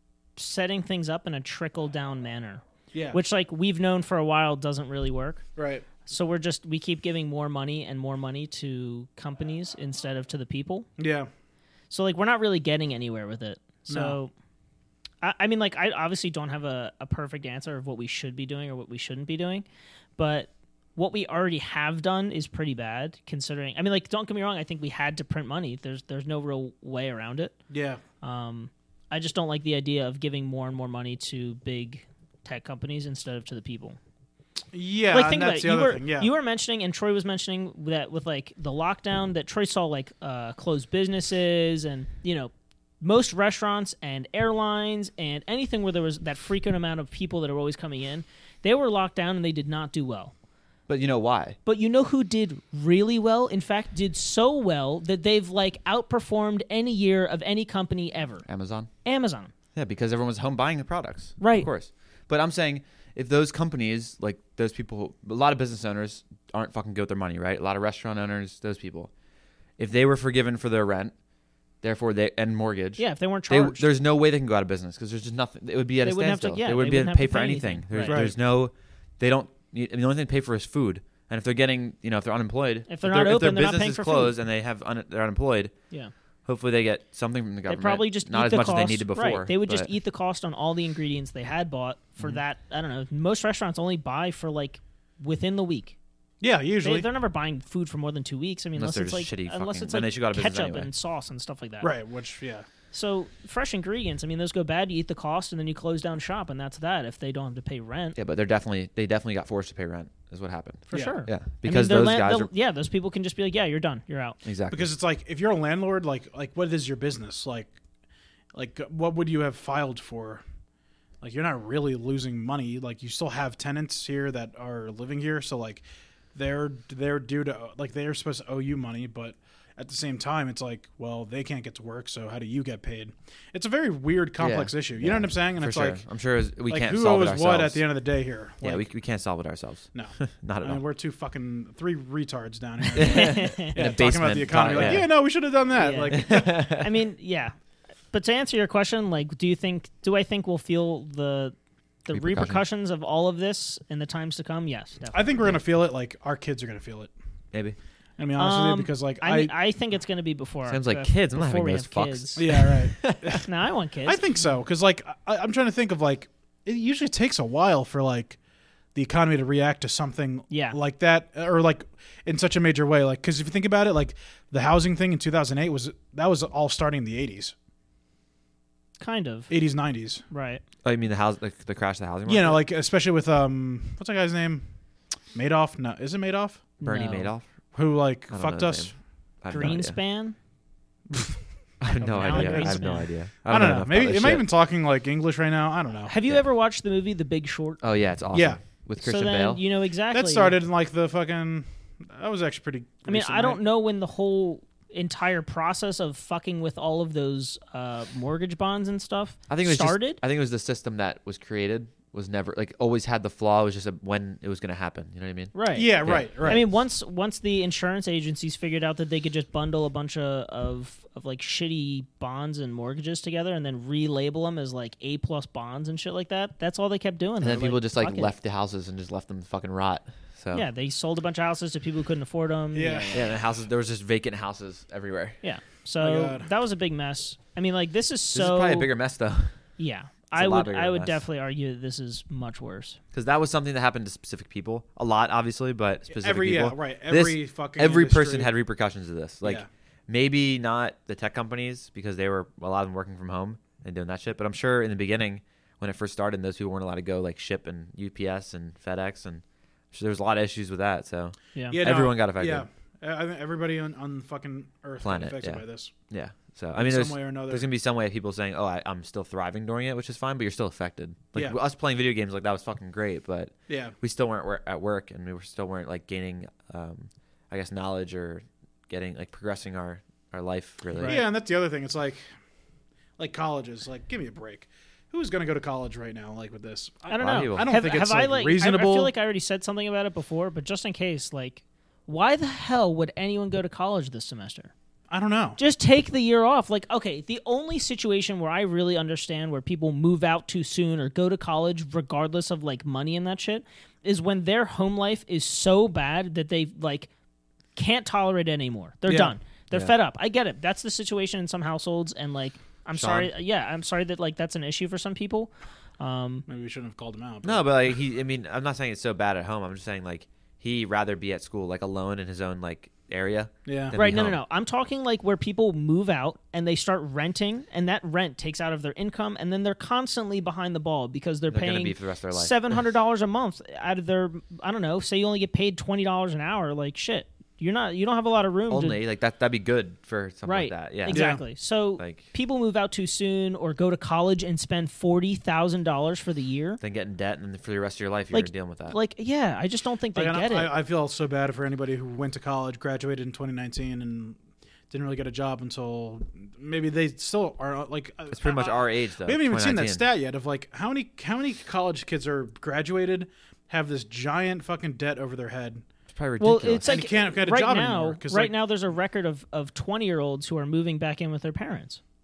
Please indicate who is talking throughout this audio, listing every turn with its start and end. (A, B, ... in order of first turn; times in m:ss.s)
0:00.4-0:05.4 A
0:02.9-0:03.2 B
0:05.6-0:05.9 B
0:06.1-0:10.9 A
0:11.0-0:11.3 B
0:11.9-0:14.3 A
0:13.9-0:14.2 B
0:15.2-0:19.6 A
0:20.2-0:27.6 A
0:27.7-0:28.0 B
0:28.2-0:34.0 A
0:34.7-0:36.3 B
0:35.1-0:50.3 A
0:50.9-0:51.6 C
0:51.7-0:58.5 A
0:58.5-0:58.9 C
0:59.0-0:59.5 A
0:59.8-1:09.1 C
1:01.4-1:01.7 A
1:09.8-1:11.1 C
1:11.8-1:25.7 C
1:13.0-1:13.9 A
1:16.0-1:18.3 A
1:18.1-1:18.3 B
1:22.9-1:24.3 A
1:26.5-1:29.9 C
1:27.7-1:36.0 A
1:36.4-1:37.1 B
1:36.8-1:41.9 A
1:38.8-1:40.9 C
1:41.8-1:42.7 B
1:42.9-1:48.2 A
1:48.2-1:52.5 C
1:50.9-1:54.4 A
1:50.9-1:51.2 B
1:54.4-1:54.9 C
1:54.7-1:57.8 B
1:58.6-2:00.4 B
2:01.2-2:16.0 B
2:14.4-2:17.8 C
2:16.7-2:18.9 B
2:18.6-2:20.8 C
2:19.9-2:26.5 B
2:23.0-2:25.1 C
2:23.0-2:23.8 A
2:24.7-2:25.0 A
2:25.7-2:27.5 A
2:26.1-2:26.9 C
2:28.1-2:31.6 A
2:32.1-2:35.5 A
2:32.1-2:32.6 C
2:35.1-2:37.1 B
2:38.2-2:39.5 B
2:38.4-2:42.6 A
2:40.7-2:43.4 C
2:42.4-2:43.5 B
2:43.4-2:44.2 A
2:44.0-2:48.4 B
2:49.0-2:57.6 B
2:50.5-2:50.8 A
2:59.0-2:59.5 A
2:59.5-3:00.2 B
3:00.3-3:00.6 A
3:00.8-3:02.6 C
3:02.3-3:04.7 B
3:05.3-3:06.7 B
3:06.8-3:07.3 A
3:06.8-3:07.5 C
3:07.8-3:08.9 B
3:08.3-3:10.0 C
3:09.5-3:10.4 A
3:11.1-3:11.4 B
3:11.8-3:14.4 C
3:12.0-3:12.9 B
3:12.2-3:13.1 A
3:13.5-3:16.1 B
3:16.1-3:17.8 A
3:17.8-3:19.6 C
3:18.3-3:18.6 B
3:19.0-3:20.6 A
3:20.1-3:23.6 B
3:23.1-3:30.2 A
3:29.5-3:36.3 C
3:35.5-3:48.3 A
3:35.8-3:36.6 B
3:47.4-3:50.7 C
3:50.5-3:53.3 A
3:52.7-3:53.4 B
3:53.1-3:55.4 C
3:55.4-3:58.9 A
3:56.0-3:56.5 B
3:58.3-3:59.6 C
3:59.8-4:03.0 A
4:00.4-4:01.2 C
4:03.1-4:22.6 C
4:06.1-4:08.5 B
4:09.4-4:09.7 B
4:21.7-4:25.9 B
4:25.0-4:41.2 C
4:26.8-4:27.7 B
4:33.7-4:33.9 B
4:40.9-4:41.3 A
4:41.0-4:42.2 B
4:43.2-4:49.1 B
4:47.1-4:54.7 A
4:47.2-4:47.7 C
4:55.1-4:55.6 B
4:55.6-5:07.1 A
5:07.8-5:16.5 A
5:09.1-5:09.3 B
5:12.9-5:13.3 C
5:16.5-5:17.7 B
5:17.4-5:24.4 C
5:23.7-5:24.0 B
5:23.9-5:39.0 A
5:31.5-5:32.6 C
5:38.7-5:42.3 C
5:40.5-5:46.8 A
5:41.1-5:41.4 B
5:46.8-5:49.0 C
5:48.3-5:50.7 A
5:50.2-5:54.4 B
5:54.9-6:05.9 B
5:58.3-6:00.0 C
6:06.1-6:07.0 C
6:06.4-6:12.0 A
6:06.8-6:08.5 B